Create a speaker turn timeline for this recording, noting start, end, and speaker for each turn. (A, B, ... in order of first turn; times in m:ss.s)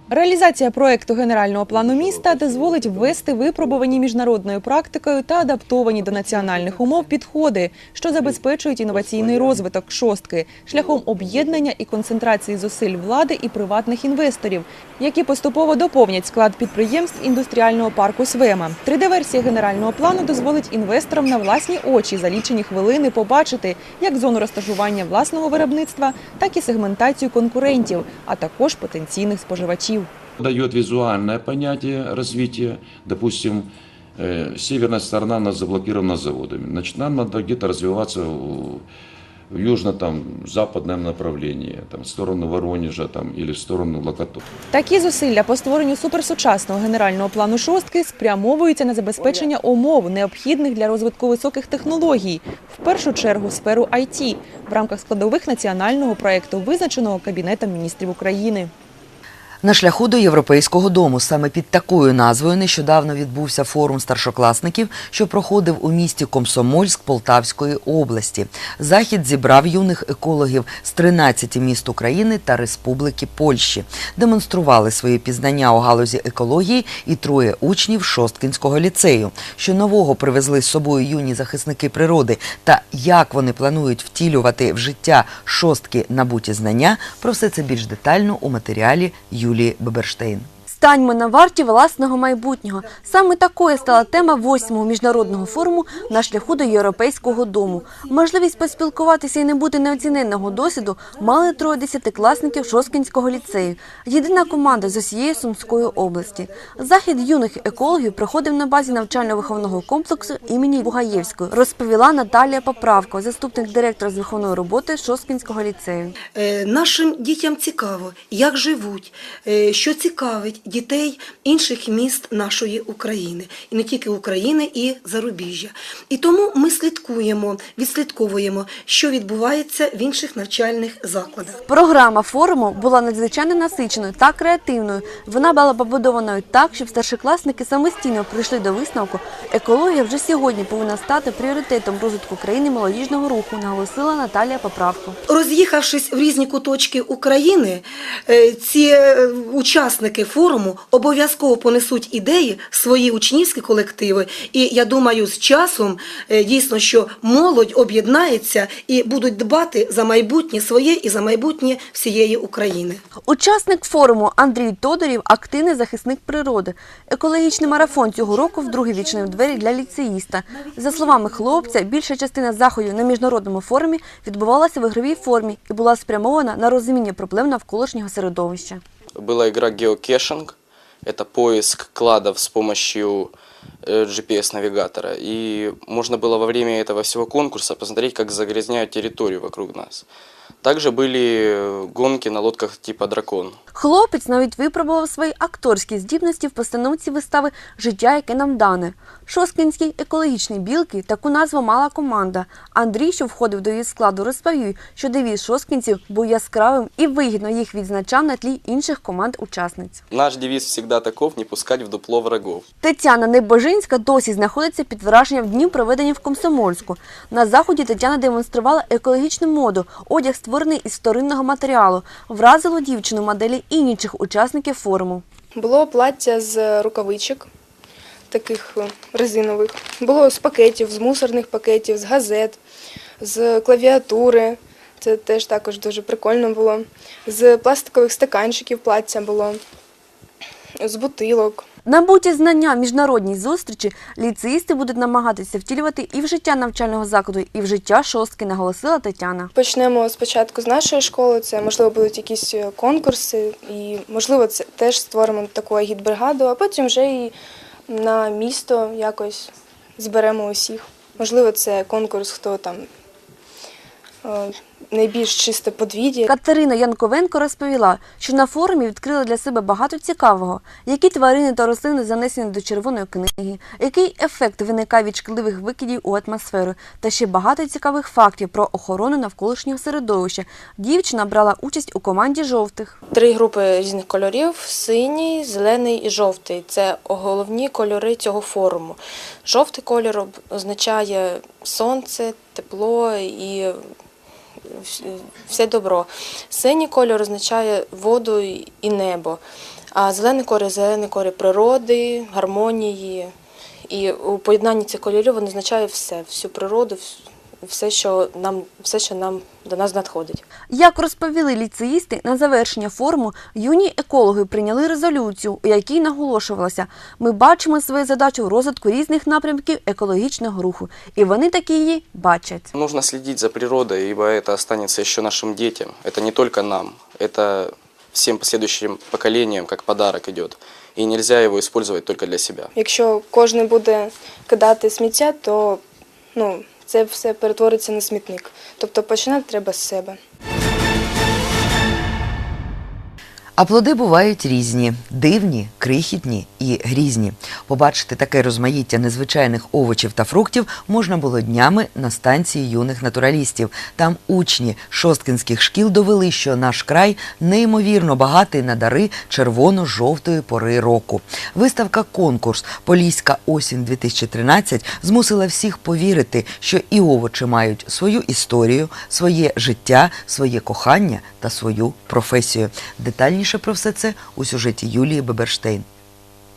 0:00.1-0:30.1 A
0:30.4-0:38.8 B
0:39.5-0:44.4 B
0:44.7-0:58.7 A
0:59.6-1:30.5 C
1:30.7-1:56.1 D
1:56.3-2:11.6 E
2:11.7-2:25.2 D
2:25.3-2:43.0 E
2:43.2-2:58.8 D
2:59.2-3:03.3 F
3:03.8-3:10.0 F
3:10.6-3:13.6 F
3:13.7-3:30.0 D
3:30.1-3:32.6 F
3:32.8-3:45.2 D
3:45.5-3:47.5 G
3:48.3-3:52.6 G
3:53.2-3:59.6 G
4:00.8-4:01.6 G
4:01.8-4:09.5 D
4:09.6-4:17.3 G
4:17.9-4:22.9 G
4:24.2-4:26.3 G
4:26.2-4:43.0 D
4:43.1-4:53.8 H
4:54.7-5:03.3 H
5:03.9-5:10.4 H
5:10.7-5:22.7 D
5:22.7-5:32.7 F
5:32.8-5:35.8 G
5:36.3-5:40.2 G
5:43.6-6:15.8 C